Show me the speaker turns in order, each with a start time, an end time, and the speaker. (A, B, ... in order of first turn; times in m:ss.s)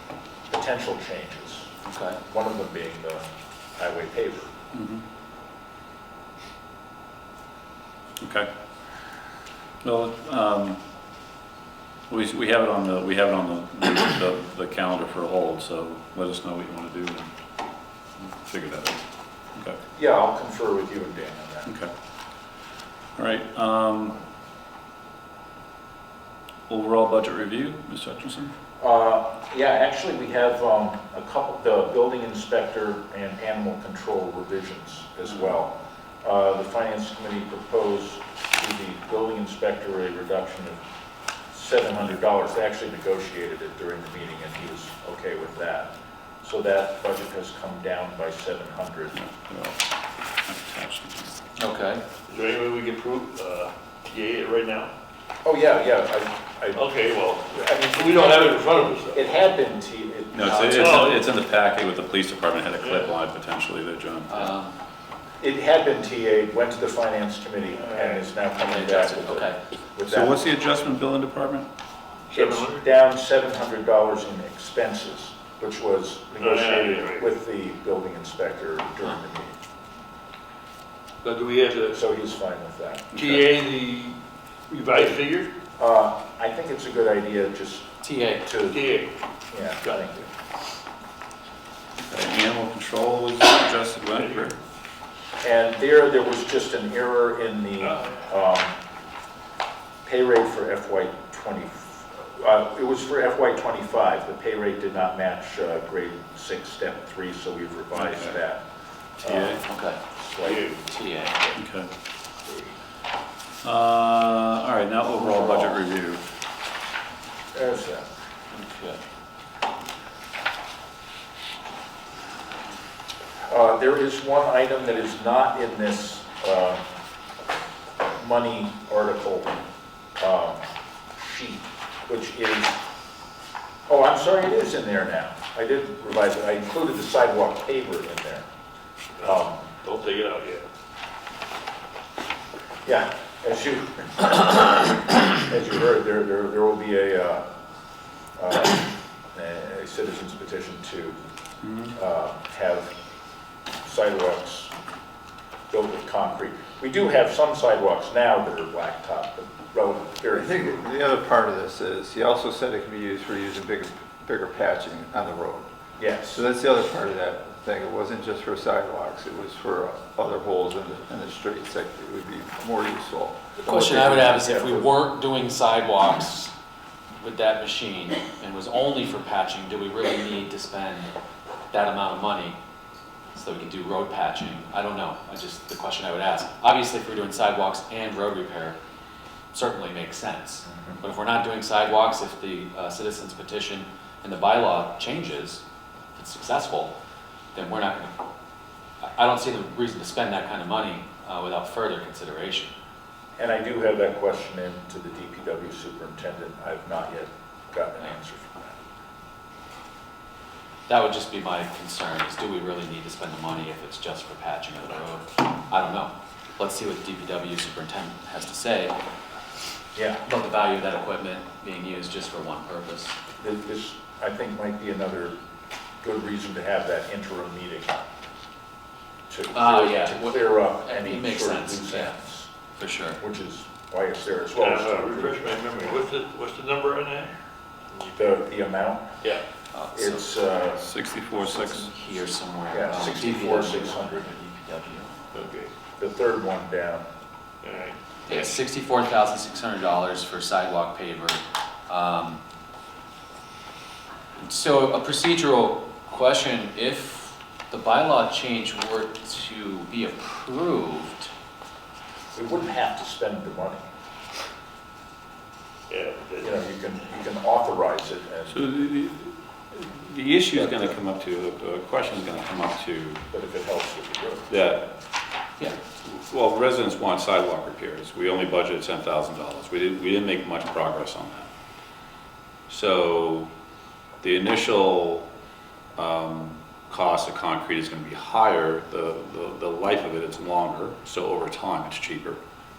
0:00.5-0:01.7 A
0:01.8-0:02.2 B
0:02.3-0:03.2 A
0:03.8-0:04.5 A
0:04.7-0:05.0 C
0:08.2-0:08.5 C
0:09.8-0:10.8 C
0:12.1-0:17.3 C
0:18.2-0:19.0 C
0:19.9-0:21.7 A
0:21.6-0:21.9 C
0:23.2-0:24.2 C
0:26.7-0:28.5 C
0:28.8-0:40.8 A
0:41.5-0:49.1 A
0:49.1-0:49.8 C
0:50.4-0:51.3 C
0:51.6-0:52.0 B
0:52.3-0:54.9 D
0:55.4-0:56.8 A
0:56.7-0:59.3 D
0:57.5-1:01.0 A
1:00.3-1:04.5 C
1:00.4-1:01.2 B
1:00.5-1:01.3 D
1:02.7-1:03.1 D
1:04.3-1:04.7 B
1:05.4-1:10.4 A
1:07.7-1:08.3 D
1:08.6-1:09.6 B
1:10.1-1:11.7 C
1:12.3-1:12.8 D
1:12.3-1:19.6 A
1:16.4-1:17.3 D
1:21.2-1:22.0 D
1:21.9-1:23.4 A
1:23.1-1:24.2 D
1:24.7-1:25.5 D
1:25.8-1:27.9 A
1:28.0-1:28.4 B
1:28.4-1:28.8 A
1:28.7-1:29.1 D
1:29.5-1:30.3 A
1:32.1-1:34.6 C
1:34.1-1:34.5 D
1:35.4-1:38.7 A
1:37.8-1:38.2 D
1:40.0-1:48.6 A
1:48.0-1:48.4 C
1:49.2-1:50.8 A
1:49.2-1:49.6 C
1:49.6-1:50.0 B
1:50.4-1:50.7 D
1:50.8-1:51.4 B
1:51.5-1:51.9 C
1:53.6-1:56.2 C
1:55.2-1:55.8 B
1:57.5-1:58.0 A
1:58.5-1:59.0 B
2:03.5-2:06.8 A
2:08.2-2:09.6 A
2:10.2-2:10.6 A
2:11.1-2:12.8 A
2:13.9-2:18.5 A
2:19.2-2:20.6 D
2:19.2-2:19.7 A
2:22.8-2:27.4 A
2:28.4-2:31.2 A
2:31.6-2:31.9 C
2:31.9-2:32.9 A
2:33.8-2:34.7 A
2:35.7-2:40.9 A
2:40.3-2:45.7 E
2:46.0-2:46.4 A
2:46.3-2:54.3 E
2:53.6-2:54.9 A
2:53.6-2:56.5 B
2:57.2-3:01.1 B
3:01.7-3:02.6 B
3:03.3-3:08.8 B
3:09.5-3:15.6 B
3:10.6-3:11.0 A
3:16.1-3:16.9 B
3:17.5-3:18.2 B
3:19.0-3:22.7 B
3:23.4-3:28.8 A
3:30.9-3:38.9 B
3:39.9-3:40.2 A
3:40.2-3:43.1 B
3:43.4-3:45.4 A
3:46.0-3:48.0 A
3:49.3-3:52.5 A
3:49.5-3:52.2 B
3:52.7-3:53.2 B
3:53.2-3:55.6 A
3:54.6-3:57.3 D
3:58.1-3:59.1 A
3:59.7-4:00.3 B
3:59.9-4:00.8 A
4:00.8-4:01.9 C
4:01.4-4:05.1 B
4:02.7-4:04.3 A
4:05.3-4:05.7 D
4:06.0-4:07.0 A
4:07.6-4:08.0 D
4:08.2-4:12.4 B
4:08.3-4:08.6 C
4:14.4-4:21.3 B
4:22.3-4:23.8 A
4:25.9-4:26.6 D
4:26.4-4:28.6 A
4:28.5-4:33.2 C
4:30.5-4:31.0 A
4:33.3-4:34.5 A
4:34.5-4:34.8 C
4:35.6-4:41.5 C
4:42.7-4:43.5 C
4:44.2-4:45.2 C
4:46.0-4:52.4 C